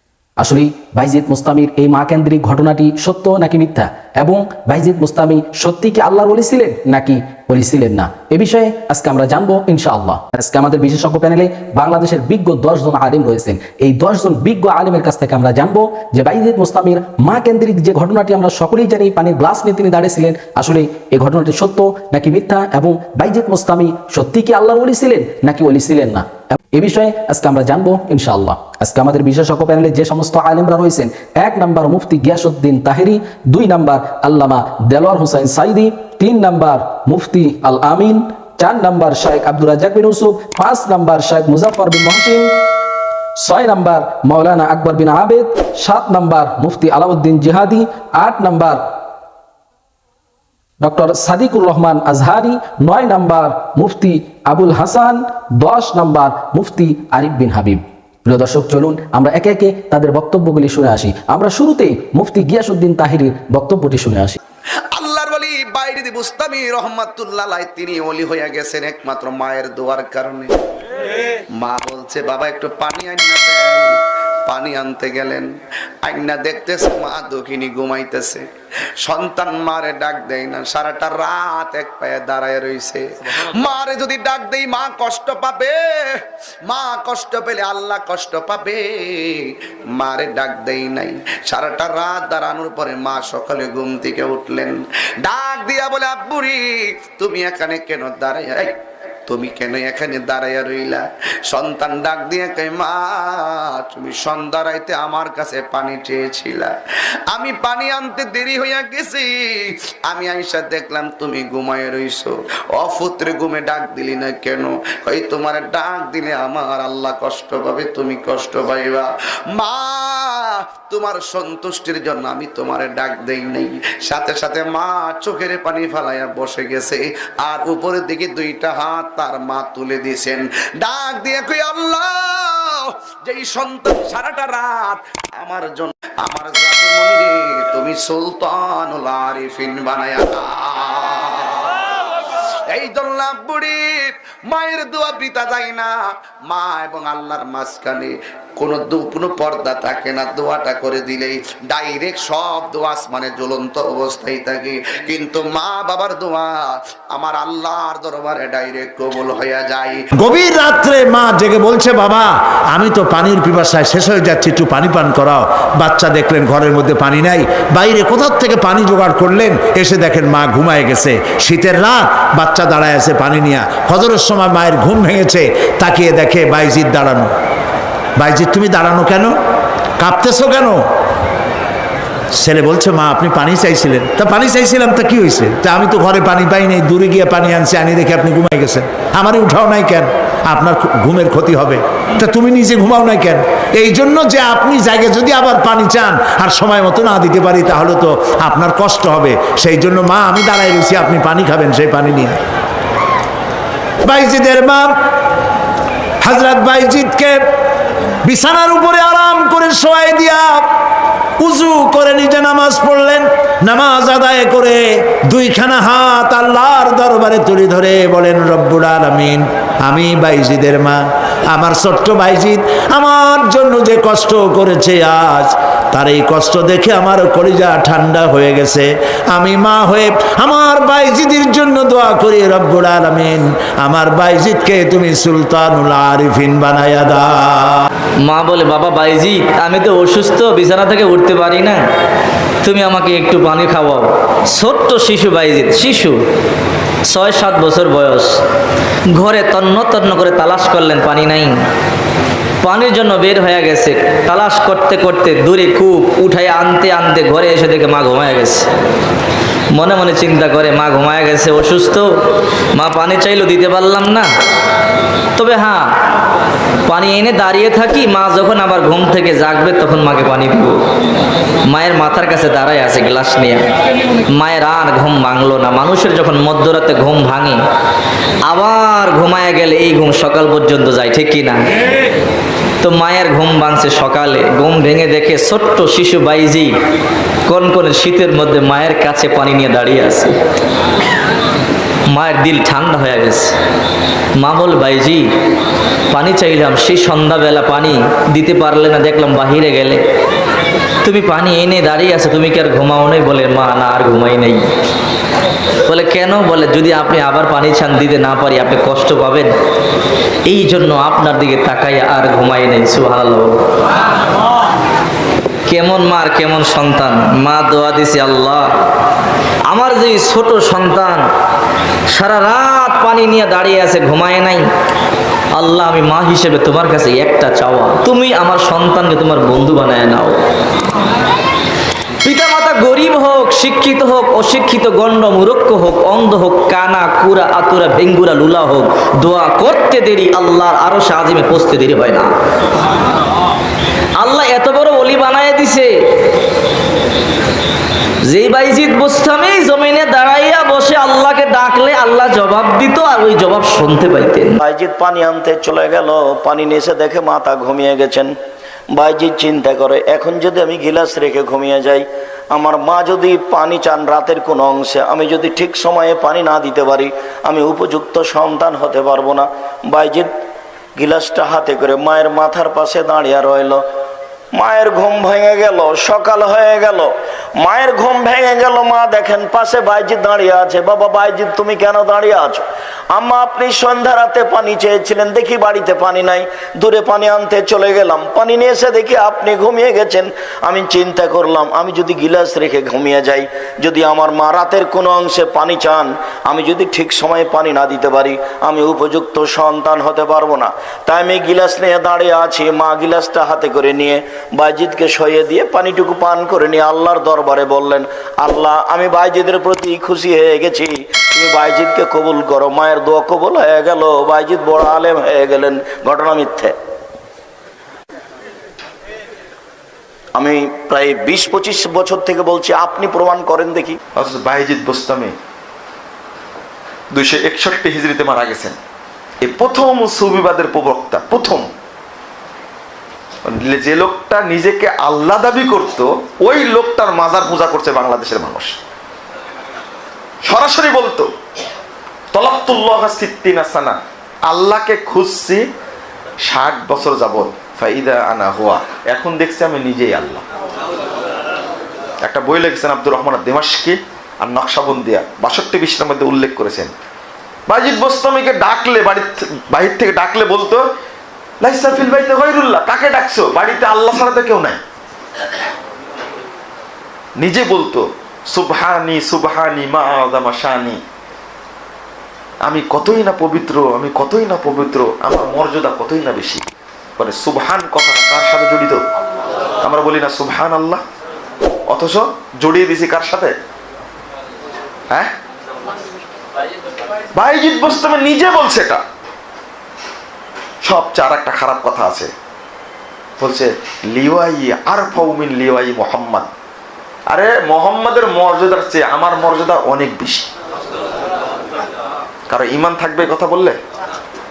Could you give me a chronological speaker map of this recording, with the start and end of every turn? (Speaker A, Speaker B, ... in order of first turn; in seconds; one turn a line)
Speaker A: 0.4-42.5
Speaker A: 43.4-48.9
Speaker A: 50.8-64.4
Speaker B: 64.9-70.5
Speaker B: 71.6-75.5
Speaker B: 76.0-78.4
Speaker B: 79.0-83.0
Speaker B: 83.5-106.7
Speaker B: 107.3-141.7
Speaker B: 142.7-156.5
Speaker B: 157.1-160.0
Speaker C: 160.2-177.3
Speaker C: 178.2-179.3
Speaker C: 180.0-180.7
Speaker C: 182.4-202.3
Speaker C: 204.1-204.8
Speaker C: 206.2-207.3
Speaker C: 208.3-210.4
Speaker C: 211.4-214.8
Speaker C: 215.3-220.9
Speaker C: 221.5-237.2
Speaker D: 238.2-241.8
Speaker D: 242.6-246.2
Speaker D: 247.1-248.3
Speaker D: 249.1-251.5
Speaker D: 252.6-258.6
Speaker D: 259.7-262.1
Speaker D: 262.7-264.3
Speaker D: 265.4-265.9
Speaker D: 266.9-270.8
Speaker D: 271.7-273.7
Speaker D: 274.3-277.6
Speaker D: 278.4-281.6
Speaker D: 282.8-286.7
Speaker D: 287.5-290.3
Speaker D: 292.1-293.5
Speaker D: 294.4-295.2
Speaker D: 296.1-300.0
Speaker D: 301.0-304.6
Speaker D: 305.9-309.5
Speaker D: 310.5-313.6
Speaker D: 315.7-318.7
Speaker D: 319.7-321.2
Speaker D: 322.1-324.6
Speaker D: 325.5-330.4
Speaker D: 332.2-342.3
Speaker D: 344.2-345.9
Speaker D: 348.2-354.6
Speaker E: 354.6-358.3
Speaker E: 358.9-370.3
Speaker E: 371.0-373.8
Speaker E: 374.5-416.7
Speaker E: 420.4-424.0
Speaker F: 424.1-425.3
Speaker F: 427.1-428.7
Speaker F: 429.4-431.6
Speaker F: 433.5-438.8
Speaker F: 440.5-441.3
Speaker F: 442.3-443.9
Speaker C: 442.5-443.7
Speaker F: 444.5-445.6
Speaker F: 446.4-450.4
Speaker C: 450.0-450.4
Speaker F: 452.2-456.9
Speaker F: 457.7-460.8
Speaker F: 461.6-464.8
Speaker F: 467.4-468.0
Speaker F: 468.5-470.9
Speaker F: 472.7-476.5
Speaker C: 474.2-474.7
Speaker C: 476.2-476.5
Speaker F: 477.2-478.9
Speaker F: 479.8-481.0
Speaker C: 480.3-480.9
Speaker F: 481.9-483.5
Speaker F: 487.4-489.0
Speaker C: 487.6-488.3
Speaker F: 490.9-492.3
Speaker C: 490.9-491.8
Speaker F: 493.4-496.5
Speaker C: 494.3-495.1
Speaker F: 497.3-500.4
Speaker C: 499.6-500.4
Speaker F: 502.5-503.7
Speaker C: 502.7-503.2